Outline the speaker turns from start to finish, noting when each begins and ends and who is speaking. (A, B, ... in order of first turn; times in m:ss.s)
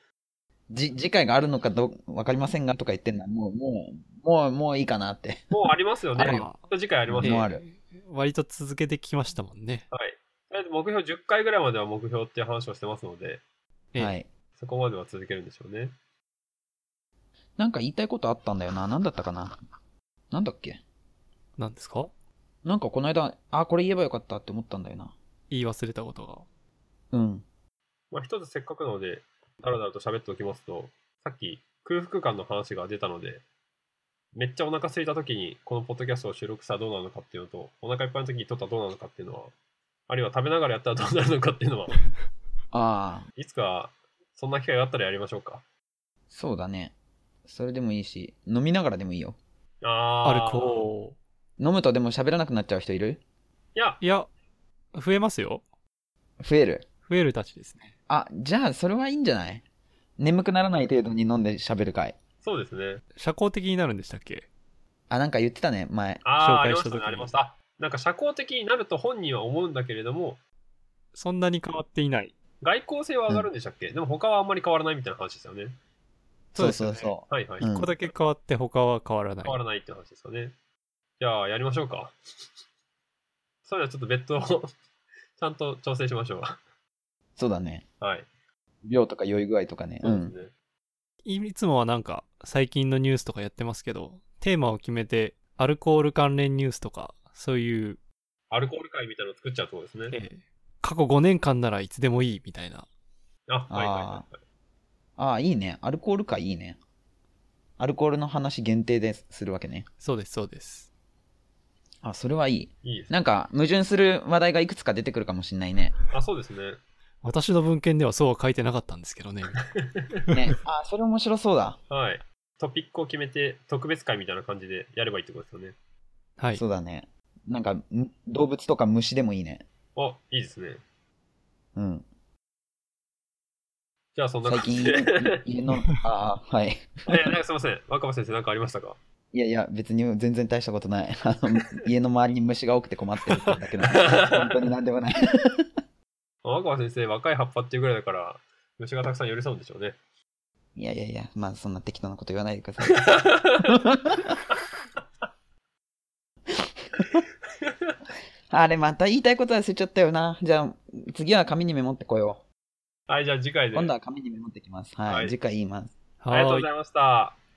0:00.7-0:05.6 A
0:05.5-0:07.5 B
0:06.2-0:06.6 C
0:06.2-0:06.5 A
0:07.1-0:07.6 A
0:07.2-0:09.9 C
0:09.9-0:13.4 B
0:14.0-0:14.3 A
0:14.6-0:16.0 B
0:17.6-0:19.6 A
0:20.3-0:20.8 A
0:21.6-0:22.1 C
0:22.6-0:25.2 A
0:25.5-0:26.5 C
0:27.1-0:27.4 A
0:28.1-0:33.4 B
0:34.3-0:39.5 B
0:40.1-0:42.0 B
0:42.7-0:43.3 A
0:43.4-0:45.6 B
0:46.3-0:46.9 A
0:47.4-0:49.4 A
0:49.8-0:50.9 B
0:50.2-0:51.2 C
0:51.6-0:53.2 A
0:53.8-0:54.0 B
0:54.0-0:54.3 C
0:54.9-0:55.6 C
0:56.4-0:56.9 A
0:57.1-0:57.9 C
0:58.1-0:59.6 A
1:00.2-1:02.2 A
1:02.4-1:03.0 B
1:03.2-1:04.5 C
1:05.1-1:06.2 A
1:06.2-1:10.4 B
1:06.4-1:07.3 C
1:11.1-1:12.4 C
1:12.6-1:15.8 B
1:16.5-1:19.6 C
1:16.6-1:17.9 A
1:17.3-1:17.7 B
1:19.4-1:20.6 B
1:21.2-1:22.2 B
1:23.7-1:24.7 B
1:25.4-1:26.6 B
1:27.4-1:27.8 A
1:28.0-1:28.3 B
1:28.8-1:30.3 A
1:30.0-1:30.5 B
1:31.2-1:38.0 C
1:38.5-1:40.2 B
1:40.1-1:42.9 C
1:43.5-1:44.4 B
1:43.7-1:44.2 A
1:45.2-1:46.8 A
1:47.8-1:49.9 A
1:50.0-1:50.9 C
1:52.0-1:55.9 A
1:52.8-1:53.2 B
1:56.1-1:56.8 B
1:57.2-1:59.6 C
1:59.7-2:00.2 B
2:00.3-2:01.8 A
2:01.9-2:05.8 B
2:06.5-2:09.6 A
2:10.0-2:10.8 B
2:11.8-2:12.1 A
2:14.2-2:15.2 B
2:14.4-2:17.2 A
2:17.1-2:19.0 B
2:19.3-2:25.7 A
2:23.3-2:24.5 B
2:26.4-2:30.0 B
2:30.8-2:33.0 A
2:32.9-2:33.8 B
2:33.7-2:34.4 A
2:36.5-2:37.2 A
2:37.6-2:38.0 B
2:38.5-2:42.4 A
2:43.1-2:43.9 B
2:43.8-2:45.9 A
2:45.1-2:45.4 B
2:46.2-2:46.7 C
2:46.3-2:47.4 B